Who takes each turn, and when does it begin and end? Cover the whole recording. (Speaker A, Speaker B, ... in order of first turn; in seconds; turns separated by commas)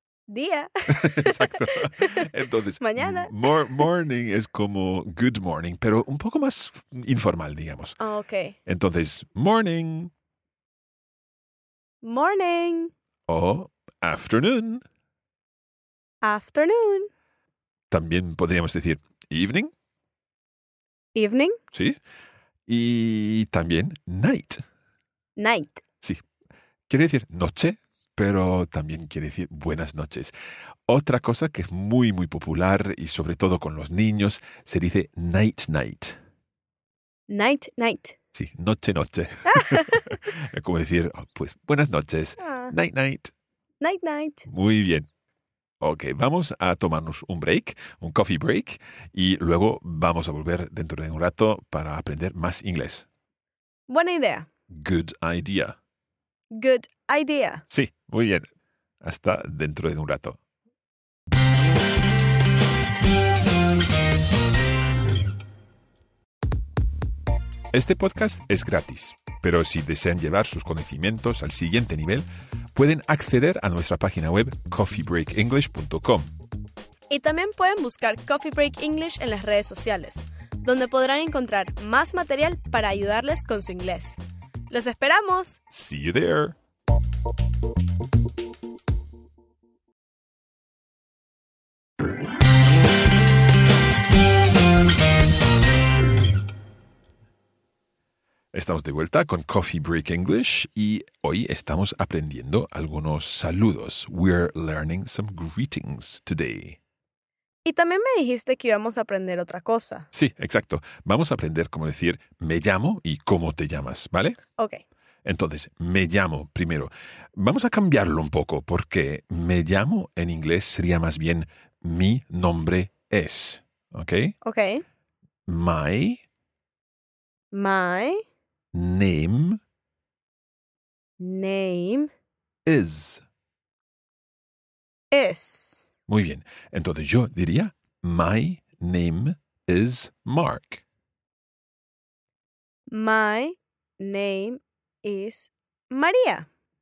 Speaker A: 0.3-2.3, Speaker B: 0.9-8.0, Speaker A: 2.8-3.8, Speaker A: 8.0-8.6, Speaker B: 8.7-10.1, Speaker A: 12.0-12.9, Speaker B: 13.3-14.8, Speaker A: 16.2-17.1, Speaker B: 17.9-19.7, Speaker A: 21.1-21.6, Speaker B: 21.7-22.0, Speaker B: 22.7-24.6, Speaker A: 25.4-25.8, Speaker B: 26.9-30.3, Speaker B: 30.9-36.2, Speaker A: 37.3-38.1, Speaker B: 38.3-43.3, Speaker A: 39.5-40.0, Speaker A: 42.4-42.7, Speaker A: 43.8-44.4, Speaker B: 44.4-45.1, Speaker B: 45.8-53.0, Speaker A: 53.9-54.5, Speaker B: 54.7-55.7, Speaker A: 56.5-57.6, Speaker B: 57.7-58.5, Speaker B: 59.0-60.4, Speaker B: 67.7-76.3, Speaker A: 77.1-84.2, Speaker A: 84.7-85.6, Speaker B: 85.7-86.5, Speaker B: 98.5-106.8, Speaker A: 107.6-110.1, Speaker B: 110.1-114.4, Speaker A: 114.6-114.8, Speaker B: 115.2-124.3, Speaker A: 124.4-124.8, Speaker B: 125.5-126.2, Speaker A: 127.5-128.2, Speaker B: 128.7-129.6, Speaker A: 131.2-132.1, Speaker B: 132.7-133.2, Speaker A: 135.1-135.9, Speaker B: 136.1-140.8, Speaker A: 142.9-146.5